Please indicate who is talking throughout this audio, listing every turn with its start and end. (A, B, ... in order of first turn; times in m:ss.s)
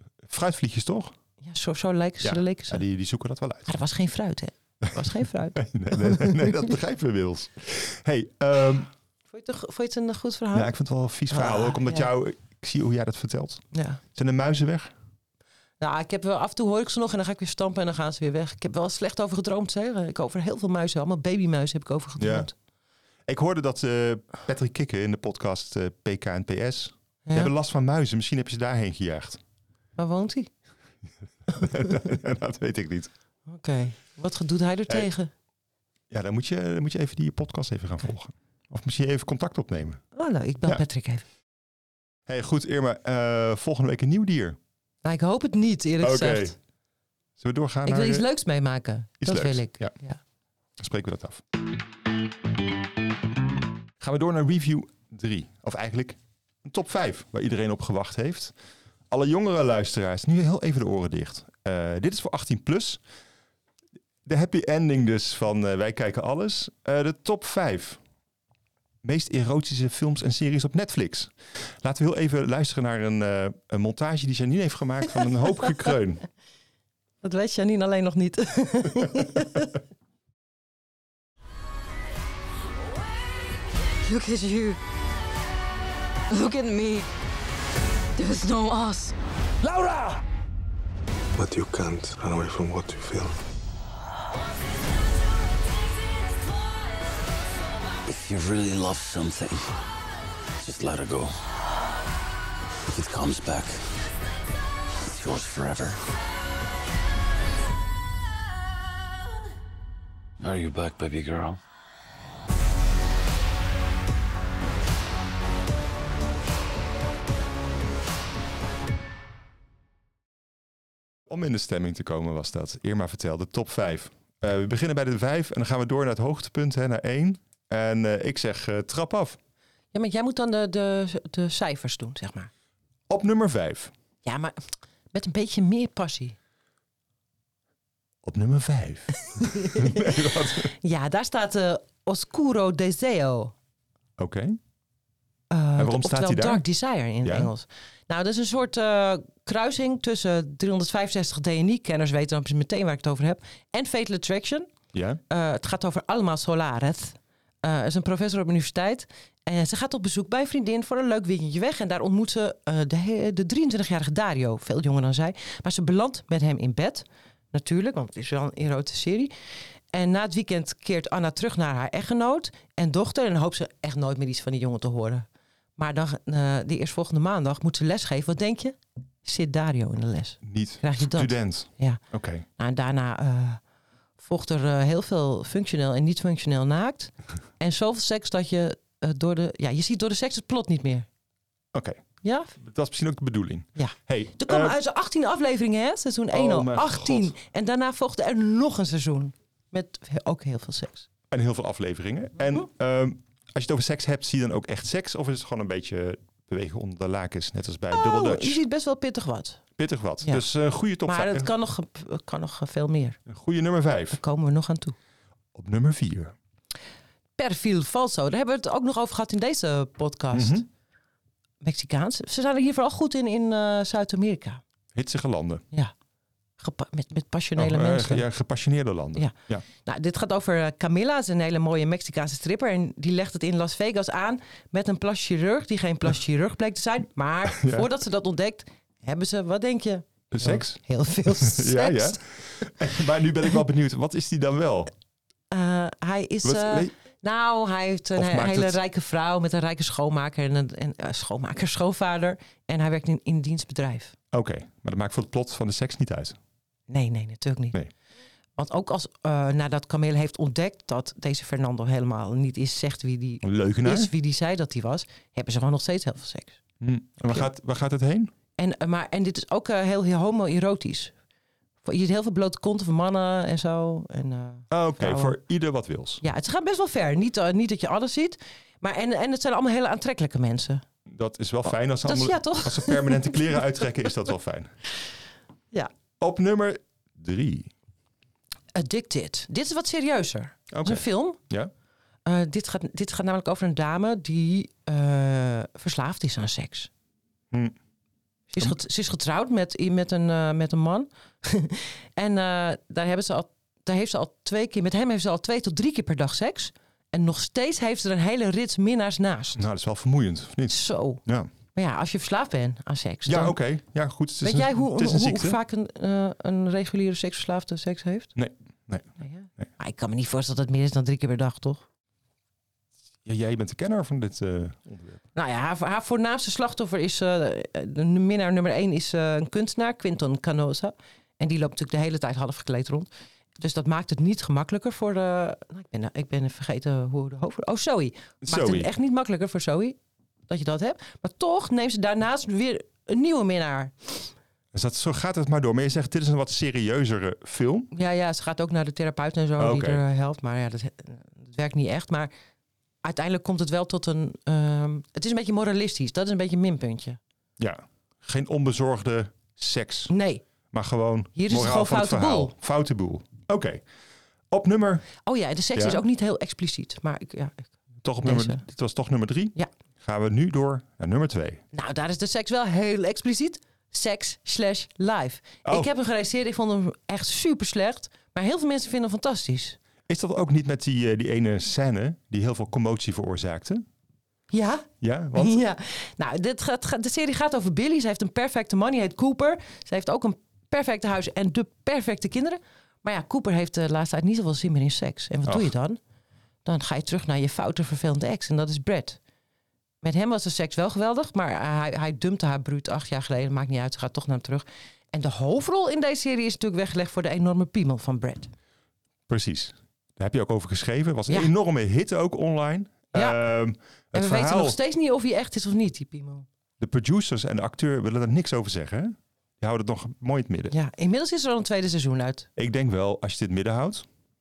0:00.2-0:01.1 A
0:01.4-0:02.8 B
0:02.2-0:03.7 A
0:03.7-0:06.5 B
0:05.5-0:08.9 A
0:09.3-0:10.7 B
0:10.5-0:14.9 A
0:11.3-0:12.1 B
0:13.7-0:14.0 B
0:15.8-0:22.5 B
0:22.2-0:22.5 A
0:23.3-0:29.4 A
0:30.0-0:30.5 B
0:31.5-0:33.1 A
0:33.5-0:35.3 B
0:36.1-0:40.0 A
0:40.1-0:41.2 B
0:42.3-0:44.6 A
0:45.0-0:46.5 B
0:46.0-0:46.5 A
0:47.4-0:48.3 A
0:47.8-0:50.2 B
0:49.2-0:49.9 A
0:50.8-0:51.4 A
0:54.0-0:58.5 A
0:59.1-1:03.0 A
1:04.2-1:08.0 A
1:09.0-1:16.2 A
1:17.2-1:19.7 B
1:24.0-1:24.8 C
1:26.3-1:27.0 C
1:28.2-1:29.1 C
1:31.4-1:33.4 D
1:38.0-1:39.7 E
1:40.6-1:41.3 E
1:42.9-1:43.8 E
1:45.0-1:46.0 E
1:50.4-1:51.6 E
2:01.3-2:09.4 A
2:09.9-2:12.5 B
2:13.1-2:13.9 A
2:14.2-2:14.6 B
2:15.1-2:16.4 B
2:18.2-2:20.7 A
2:19.3-2:20.0 B
2:20.7-2:23.5 B
2:24.2-2:24.6 A
2:25.5-2:34.7 B
2:25.8-2:26.6 A
2:27.2-2:27.5 A
2:34.9-2:35.2 A
2:35.3-2:49.3 B
2:49.9-2:55.2 B
2:55.8-3:02.0 B
3:00.4-3:02.4 A
3:02.6-3:03.6 B
3:04.2-3:11.1 B
3:11.7-3:12.0 A
3:12.2-3:12.5 B
3:12.6-3:14.8 A
3:13.8-3:21.0 B
3:16.3-3:17.3 A
3:21.3-3:28.6 A
3:27.9-3:29.6 B
3:29.8-3:31.5 A
3:31.0-3:33.2 B
3:33.3-3:34.2 A
3:34.1-3:35.0 B
3:35.5-3:36.3 A
3:37.4-3:40.6 B
3:40.3-3:40.6 A
3:41.6-3:44.6 B
3:44.9-3:45.6 A
3:46.6-3:48.2 B
3:47.6-3:49.6 A
3:49.2-4:02.2 B
3:57.5-3:57.9 A
4:00.3-4:04.9 A
4:05.5-4:14.1 B
4:06.4-4:06.9 A
4:08.2-4:08.8 A
4:14.3-4:16.4 A
4:16.9-4:17.8 B
4:18.6-4:26.6 B
4:23.4-4:24.1 A
4:26.8-4:28.3 A
4:28.6-4:31.1 B
4:31.8-4:35.4 B
4:34.7-4:36.2 A
4:36.2-4:40.8 B
4:41.1-4:44.7 A
4:42.0-4:43.4 B
4:46.2-4:47.7 A
4:48.7-4:51.4 B
4:50.7-4:51.7 A
4:52.2-4:56.9 B
4:57.5-4:57.8 A
4:58.5-5:09.6 B
5:09.6-5:11.5 A
5:10.7-5:11.2 B
5:11.7-5:13.6 B
5:13.2-5:15.6 A
5:14.4-5:18.3 B
5:18.4-5:19.7 A
5:19.2-5:21.8 B
5:23.2-5:25.2 A
5:25.3-5:33.1 B
5:33.6-5:44.3 B
5:38.4-5:38.9 A
5:44.7-5:47.9 A
5:47.9-5:52.3 B
5:49.6-5:50.0 A
5:53.0-5:57.2 B
5:57.6-6:00.1 A
6:00.1-6:00.4 B
6:00.7-6:03.8 A
6:01.4-6:02.5 B
6:04.5-6:05.1 A
6:05.2-6:07.7 B
6:05.7-6:06.0 A
6:08.0-6:11.6 A
6:08.2-6:08.6 B
6:11.7-6:19.8 B
6:15.6-6:15.9 A
6:20.1-6:23.8 A
6:24.5-6:36.0 B
6:25.0-6:25.6 A
6:35.4-6:35.7 A
6:36.6-6:39.2 B
6:40.0-6:48.5 B
6:49.3-6:54.8 A
6:53.1-6:53.4 B
6:54.1-6:56.4 B
6:56.8-7:00.7 A
7:00.7-7:02.5 B
7:02.6-7:04.1 A